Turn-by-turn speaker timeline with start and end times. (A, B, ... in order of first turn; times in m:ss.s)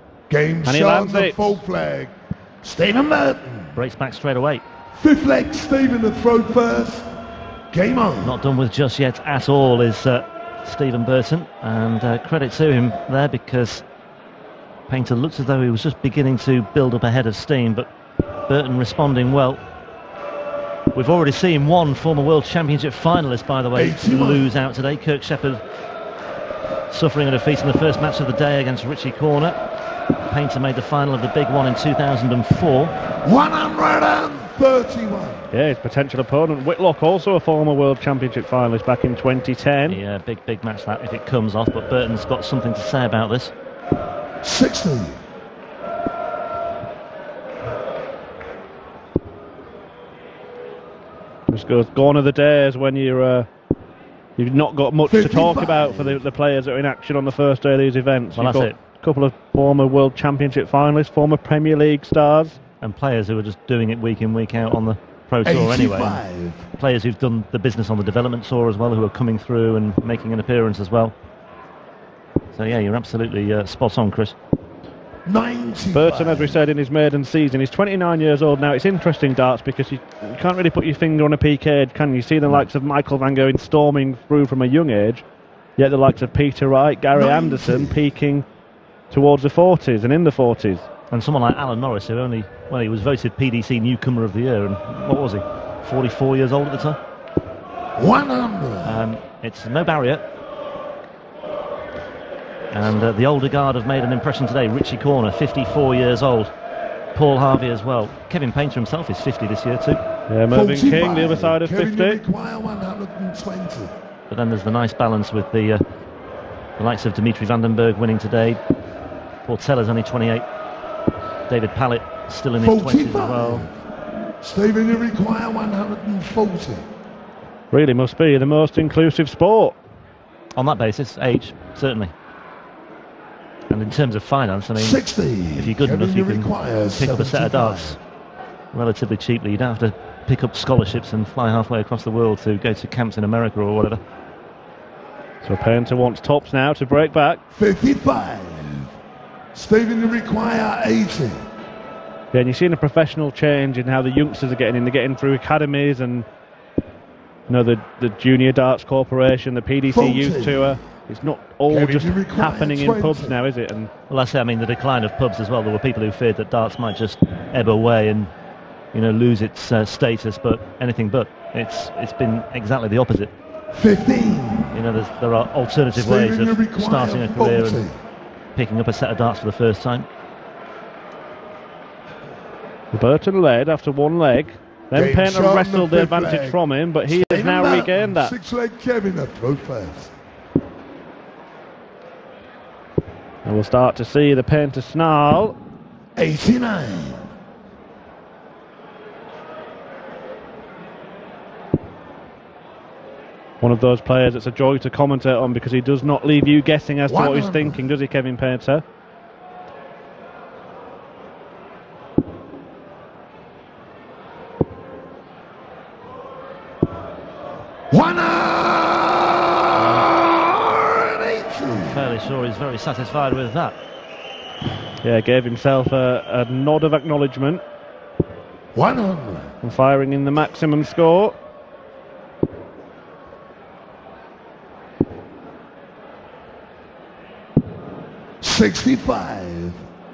0:00.3-0:03.8 A
0:00.6-0:01.6 B
0:03.7-0:04.6 C
0:04.9-0:07.1 A
0:07.7-0:08.4 A
0:08.2-0:13.8 C
0:14.9-0:17.9 C
0:18.5-0:19.6 C
0:20.9-0:25.6 C
0:23.7-0:24.5 A
0:26.9-0:29.6 C
0:30.2-0:33.0 C
0:33.2-0:35.5 A
0:35.5-0:40.0 B
0:39.9-0:43.5 C
0:44.4-0:45.2 A
0:51.5-0:53.5 B
0:54.4-1:02.6 B
0:55.1-0:56.2 A
0:58.4-0:58.8 C
1:02.8-1:06.2 C
1:05.4-1:06.7 A
1:06.8-1:11.1 C
1:12.5-1:14.4 C
1:15.2-1:16.6 A
1:15.9-1:25.2 B
1:25.8-1:28.4 B
1:27.1-1:28.0 A
1:29.1-1:30.9 B
1:31.1-1:37.0 C
1:38.0-1:39.0 A
1:38.8-1:40.2 C
1:42.7-1:46.5 C
1:47.1-1:50.0 C
1:50.3-1:52.2 B
1:50.5-1:54.0 A
1:54.3-1:55.8 C
1:56.8-1:58.6 C
1:59.4-2:00.4 C
2:01.5-2:03.6 C
2:02.6-2:03.7 A
2:04.4-2:06.9 A
2:07.7-2:09.8 B
2:10.6-2:12.1 C
2:13.7-2:15.0 C
2:14.8-2:18.0 A
2:15.5-2:18.0 C
2:18.7-2:24.0 C
2:25.4-2:27.4 B
2:27.5-2:28.9 A
2:29.5-2:31.4 A
2:32.3-2:36.3 B
2:37.5-2:43.9 B
2:39.9-2:40.8 A
2:41.7-2:43.4 A
2:44.1-2:48.3 C
2:48.9-2:53.3 C
2:53.7-2:54.8 A
2:54.7-2:57.8 C
2:55.9-2:58.0 A
2:58.5-3:00.1 C
3:02.9-3:08.3 B
3:04.9-3:10.1 A
3:13.4-3:15.6 B
3:16.2-3:17.3 A
3:23.6-3:28.8 B
3:27.1-3:27.8 A
3:37.9-3:42.0 A
3:39.7-3:40.2 C
3:41.8-3:43.8 C
3:45.0-3:47.6 B
3:48.7-3:49.5 A
3:49.6-3:51.4 B
3:58.4-3:59.8 A